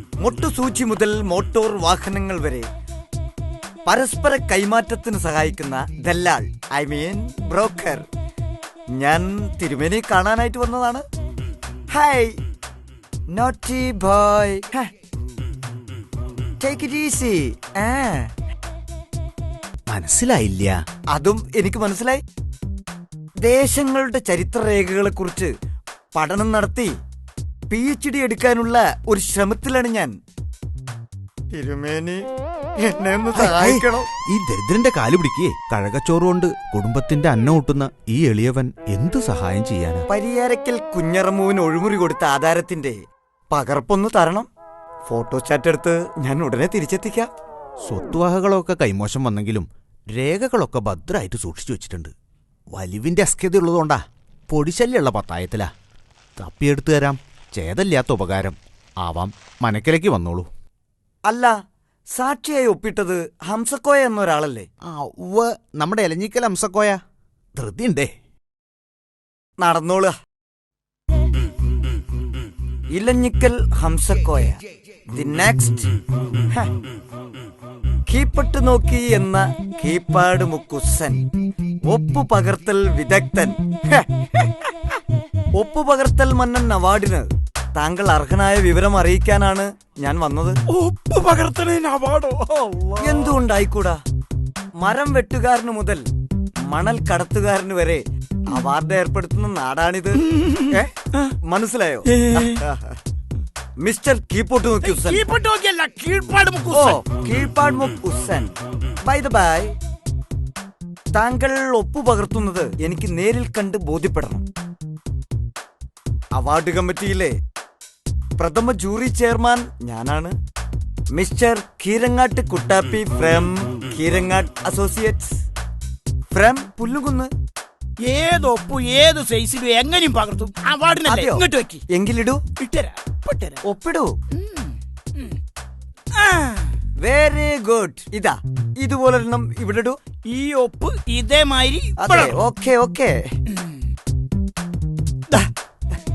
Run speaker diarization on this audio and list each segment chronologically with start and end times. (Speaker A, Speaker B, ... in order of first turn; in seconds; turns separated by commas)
Speaker A: 0.2-2.7, Speaker A: 3.9-8.1, Speaker A: 8.9-11.0, Speaker A: 11.9-12.4, Speaker A: 13.3-14.9, Speaker A: 16.6-18.3, Speaker B: 19.9-20.8, Speaker A: 21.1-22.2, Speaker A: 23.4-25.5, Speaker A: 26.1-26.9, Speaker A: 27.7-30.1, Speaker A: 31.5-32.2, Speaker A: 32.8-34.1, Speaker B: 33.4-40.1, Speaker A: 40.1-44.5, Speaker A: 45.1-47.3, Speaker B: 47.9-52.1, Speaker B: 52.7-55.7, Speaker B: 56.4-60.5, Speaker A: 61.3-61.5, Speaker A: 62.1-64.7, Speaker B: 64.9-67.0, Speaker B: 67.5-68.1, Speaker A: 69.6-70.1, Speaker A: 72.9-74.6, Speaker A: 75.1-75.9, Speaker A: 78.1-81.3, Speaker A: 81.8-84.5, Speaker A: 85.6-90.6, Speaker C: 90.7-93.4, Speaker A: 93.0-94.0, Speaker A: 94.8-96.1, Speaker A: 96.7-103.0, Speaker C: 100.3-101.3, Speaker C: 102.1-102.6, Speaker A: 103.8-105.2, Speaker C: 104.8-107.0, Speaker A: 106.7-109.7, Speaker A: 111.1-114.4, Speaker A: 116.3-117.3, Speaker A: 118.4-120.3, Speaker A: 121.1-125.4, Speaker A: 126.3-127.3, Speaker C: 128.0-131.8, Speaker A: 131.1-132.4, Speaker C: 132.6-133.6, Speaker A: 133.6-134.1, Speaker C: 134.4-135.4, Speaker C: 136.1-136.7, Speaker A: 137.0-140.0, Speaker C: 140.3-142.4, Speaker A: 142.0-143.2